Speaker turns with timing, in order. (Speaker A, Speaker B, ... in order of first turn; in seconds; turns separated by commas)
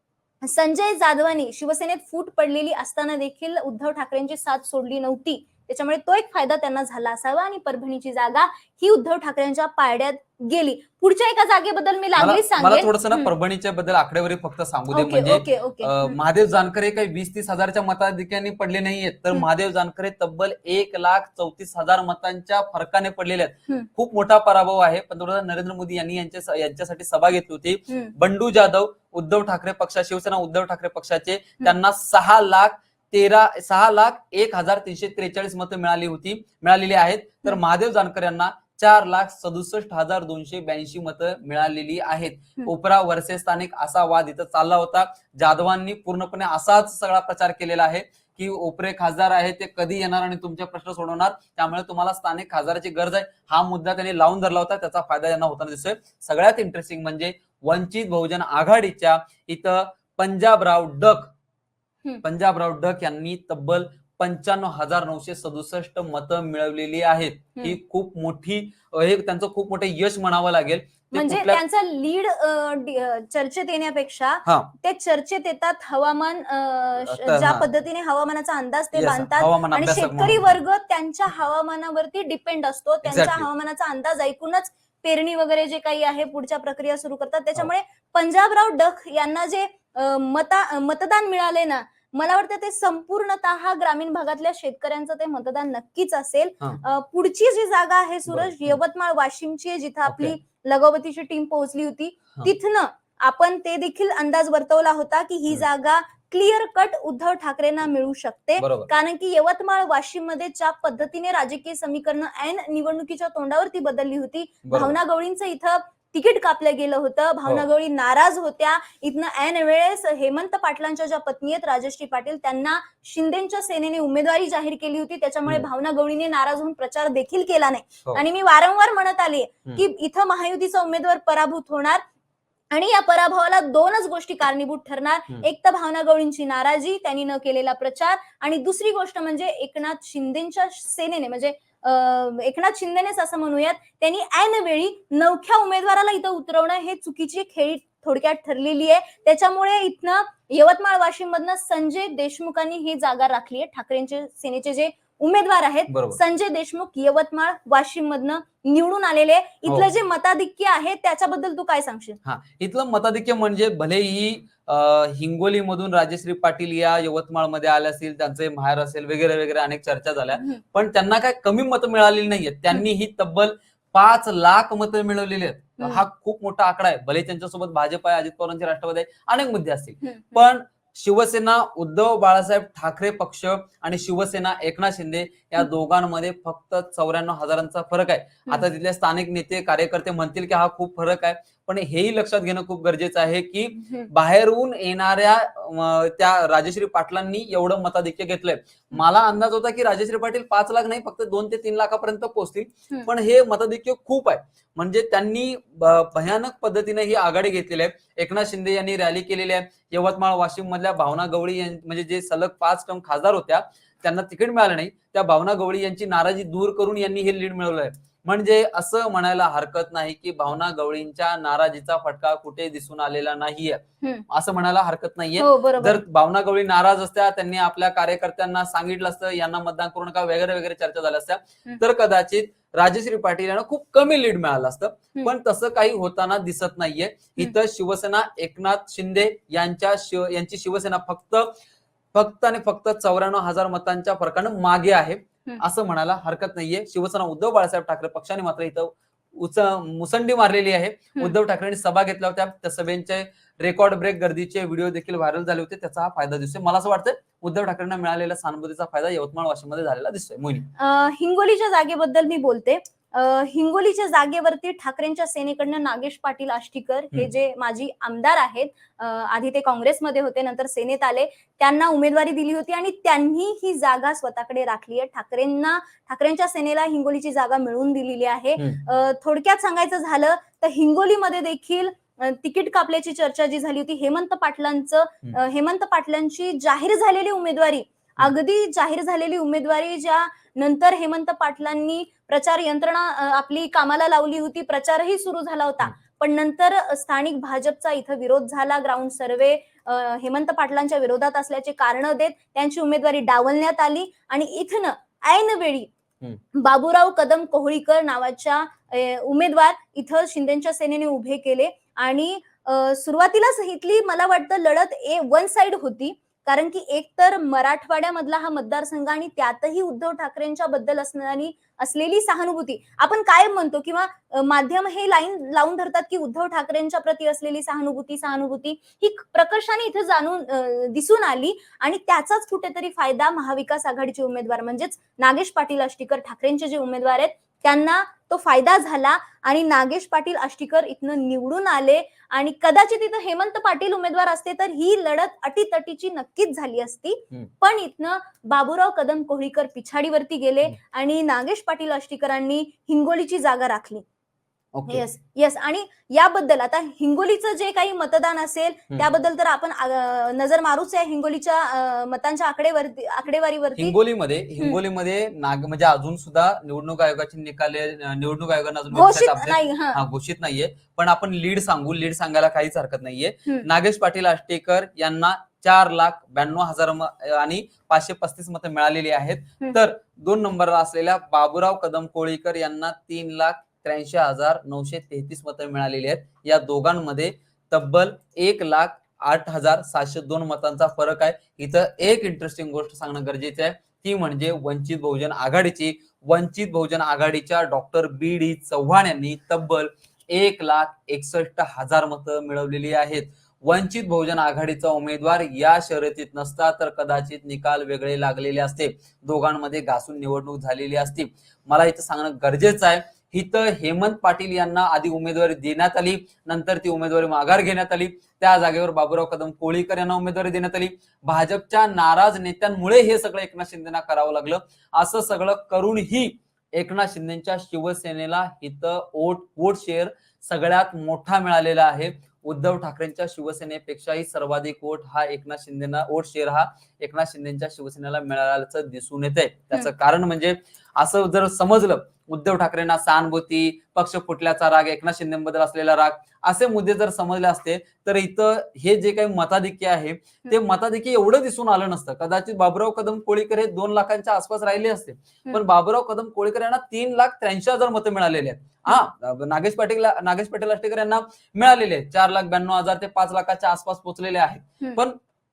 Speaker A: 0.4-13.3, Speaker B: 12.2-61.3, Speaker A: 14.9-16.2, Speaker B: 62.2-71.6, Speaker A: 71.1-132.0, Speaker B: 74.5-74.7, Speaker B: 77.0-77.7, Speaker B: 78.9-80.6, Speaker B: 83.0-83.5, Speaker B: 98.3-98.8, Speaker B: 100.1-100.4, Speaker B: 108.6-108.9, Speaker B: 114.7-115.0, Speaker A: 132.7-162.2, Speaker B: 155.9-156.2, Speaker B: 162.2-241.5, Speaker A: 170.4-170.6, Speaker A: 175.8-176.1, Speaker A: 180.0-180.4, Speaker A: 193.8-194.1, Speaker A: 225.4-226.0, Speaker B: 242.1-260.7, Speaker A: 260.8-305.9, Speaker B: 278.6-278.8, Speaker A: 306.5-354.1, Speaker B: 354.7-355.0, Speaker A: 354.9-364.0, Speaker B: 363.8-465.2, Speaker A: 368.9-370.0